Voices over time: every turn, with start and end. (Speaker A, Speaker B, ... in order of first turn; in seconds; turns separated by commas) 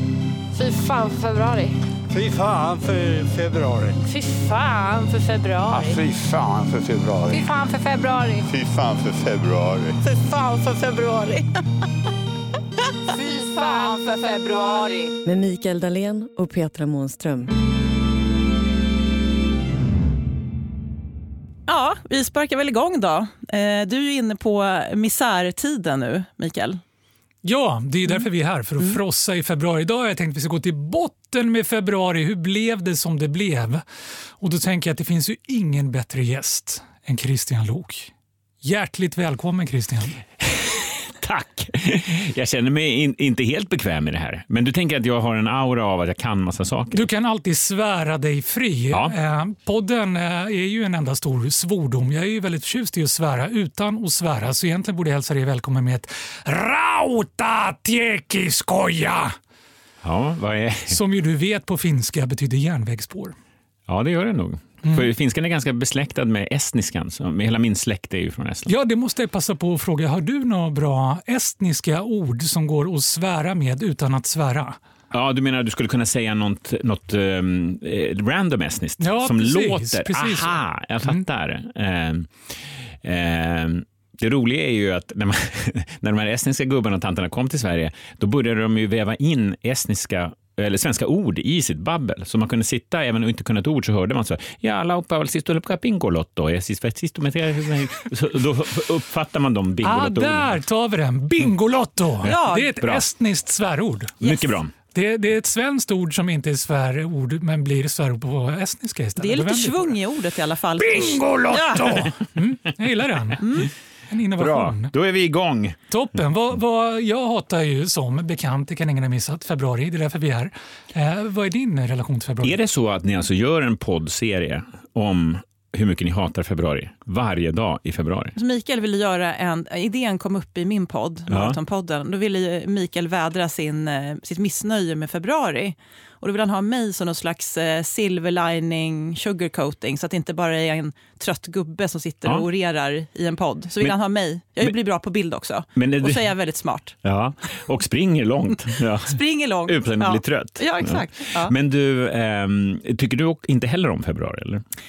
Speaker A: 0.5-1.8, Speaker B: 2.1-4.0, Speaker A: 4.0-6.0, Speaker C: 5.7-7.3, Speaker B: 5.7-7.5, Speaker A: 7.3-8.5, Speaker C: 8.5-10.0, Speaker A: 10.1-11.5, Speaker A: 13.1-15.2, Speaker D: 15.2-17.5, Speaker E: 21.7-26.8, Speaker F: 27.4-33.8, Speaker F: 34.4-40.2, Speaker G: 40.4-47.1, Speaker F: 46.9-59.3, Speaker G: 60.0-61.0, Speaker F: 60.9-63.4, Speaker G: 63.9-68.7, Speaker F: 68.7-74.8, Speaker G: 75.1-82.3, Speaker F: 79.0-81.2, Speaker G: 83.0-100.5, Speaker F: 99.8-104.2, Speaker E: 102.2-102.8, Speaker G: 102.2-103.0, Speaker E: 104.2-104.5, Speaker G: 104.2-104.7, Speaker F: 104.9-110.0, Speaker E: 109.2-112.0, Speaker F: 110.8-113.4, Speaker E: 113.4-113.7, Speaker F: 114.1-114.9, Speaker G: 114.4-115.8, Speaker F: 115.9-122.6, Speaker G: 122.4-128.3, Speaker E: 128.4-147.0, Speaker G: 131.3-131.6, Speaker G: 145.8-146.3, Speaker G: 147.0-154.6, Speaker E: 149.0-151.5